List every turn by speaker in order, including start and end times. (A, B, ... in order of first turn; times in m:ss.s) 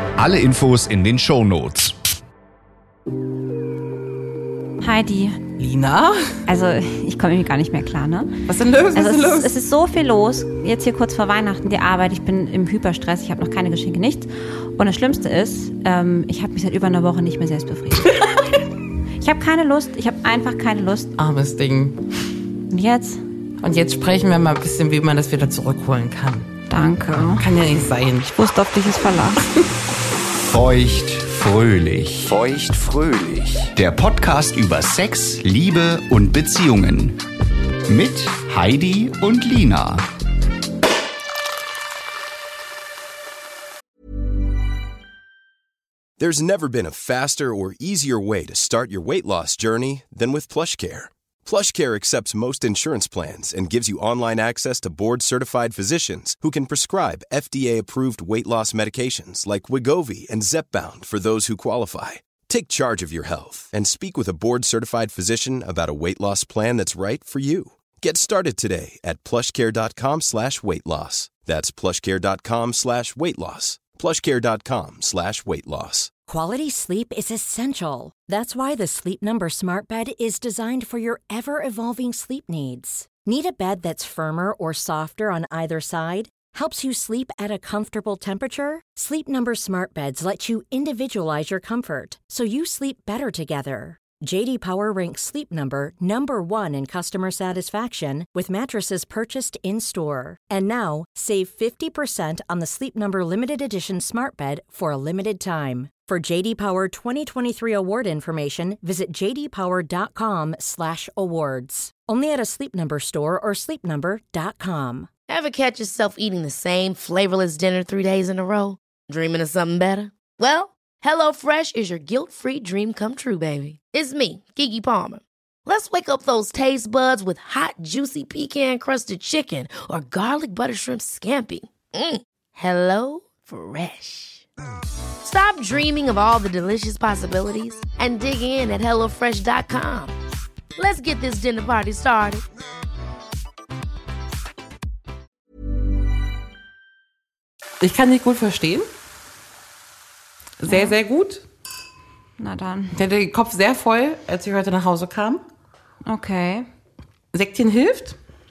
0:00.2-0:02.0 A
0:04.8-0:05.4 B
0:05.6-0:06.3 C
0:06.5-0:08.3 B
0:08.5-0:09.5 C
0:09.0-0:18.3 B
0:19.2-0:21.1 B
0:21.2-0:22.0 C
0:22.7-0:23.2 B
0:23.6-0:26.5 C
0:26.7-0:27.5 B
0:27.1-0:28.3 C
0:28.4-0:29.5 B
0:30.4-0:37.2 A
0:37.9-0:40.0 A
0:46.2-1:16.1 D
1:16.3-1:55.1 E
1:55.3-2:14.5 F
2:15.2-2:20.1 F
2:20.8-2:22.4 F
2:27.8-2:28.9 C
2:30.6-2:31.4 C
2:30.7-2:30.9 B
2:32.4-2:33.0 B
2:32.9-2:35.4 C
2:36.1-2:36.7 B
2:37.3-2:38.2 C